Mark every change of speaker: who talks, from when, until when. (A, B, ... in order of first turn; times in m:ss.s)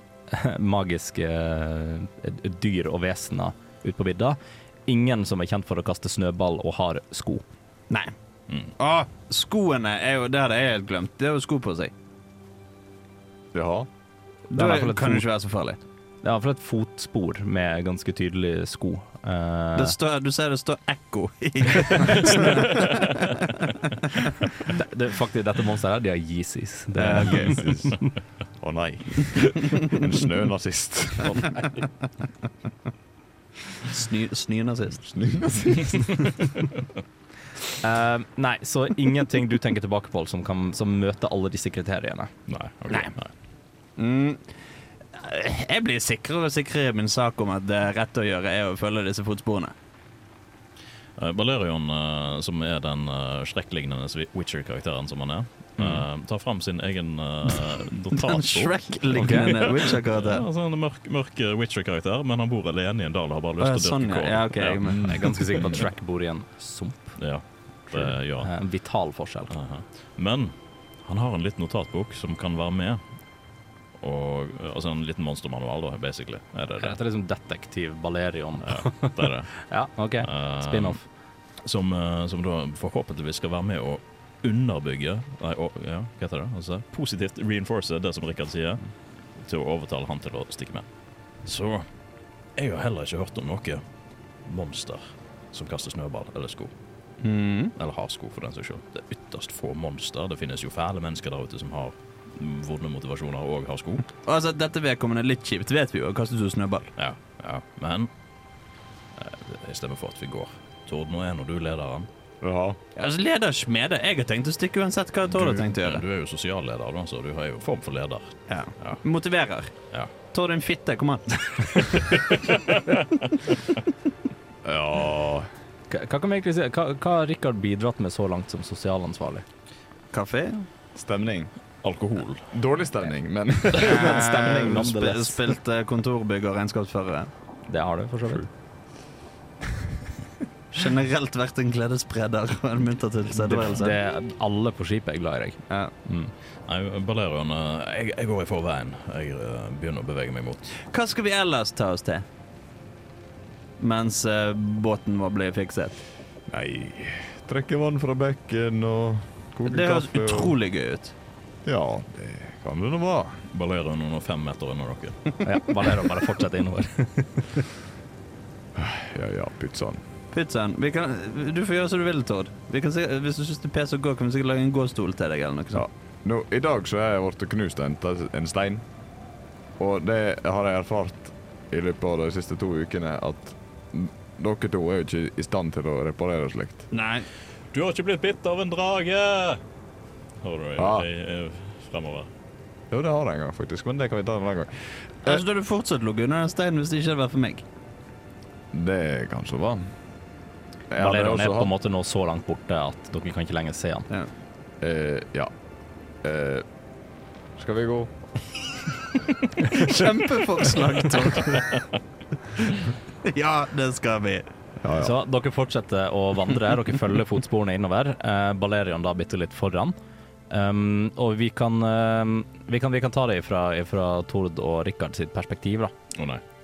0:00.3-0:07.4 A
0:08.8-0:11.9 B
0:13.5-0:13.9 C
0:14.5-0:15.8 B
0:14.6-0:15.2 A
0:16.2-0:20.0 A
0:19.8-0:24.5 B
0:24.6-0:28.0 A
0:27.0-0:27.7 B
0:27.2-0:28.0 C
0:28.6-0:31.6 C
0:33.8-0:35.0 B
0:35.0-0:36.4 C
0:37.8-0:42.3 A
0:42.5-0:43.3 D
0:44.0-0:44.5 B
0:45.1-0:49.8 B
0:51.2-1:05.8 D
0:57.7-1:00.4 B
0:59.2-0:59.6 A
1:03.6-1:05.4 B
1:04.9-1:07.2 A
1:07.2-1:08.5 D
1:08.0-1:09.5 A
1:09.5-1:13.0 D
1:14.0-1:17.0 D
1:16.8-1:21.0 A
1:18.6-1:19.6 D
1:20.2-1:21.0 D
1:21.6-1:28.8 D
1:29.4-1:30.9 D
1:31.4-1:31.9 D
1:32.6-1:33.8 D
1:34.4-1:36.7 D
1:37.2-1:37.7 B
1:37.8-1:44.1 D
1:44.2-1:46.9 B
1:47.0-1:48.1 D
1:49.2-1:52.1 D
1:52.4-1:52.8 C
1:53.0-1:56.0 B
1:55.3-1:59.0 D
1:58.5-1:59.7 B
2:00.3-2:02.4 B
2:02.1-2:03.0 D
2:04.6-2:05.5 C
2:05.9-2:09.4 A
2:10.1-2:10.7 B
2:11.0-2:11.5 C
2:11.8-2:12.5 D
2:12.5-2:14.7 C
2:13.7-2:15.4 A
2:13.8-2:17.3 B
2:17.7-2:18.5 A
2:20.7-2:24.0 B
2:23.4-2:26.3 A
2:26.7-2:30.7 D
2:30.8-2:32.2 B
2:33.8-2:36.0 B
2:36.5-2:40.6 C
2:39.7-2:41.2 B
2:41.7-2:43.5 C
2:43.5-2:45.2 D
2:45.4-2:47.7 A
2:48.8-2:50.0 C
2:50.3-2:55.8 B
2:55.7-2:58.8 C
2:59.8-3:06.9 C
3:06.9-3:07.3 B
3:07.7-3:09.6 D
3:10.4-3:12.3 D
3:10.8-3:11.1 C
3:12.9-3:15.4 C
3:15.2-3:17.6 B
3:18.7-3:19.9 C
3:20.9-3:21.7 C
3:21.0-3:24.1 A
3:24.8-3:25.5 C
3:26.2-3:26.7 C
3:27.6-3:28.1 C
3:29.6-3:31.8 B
3:32.6-3:34.5 B
3:34.8-3:35.1 C
3:35.0-3:40.0 A
3:40.5-3:45.9 A
3:46.2-3:46.4 D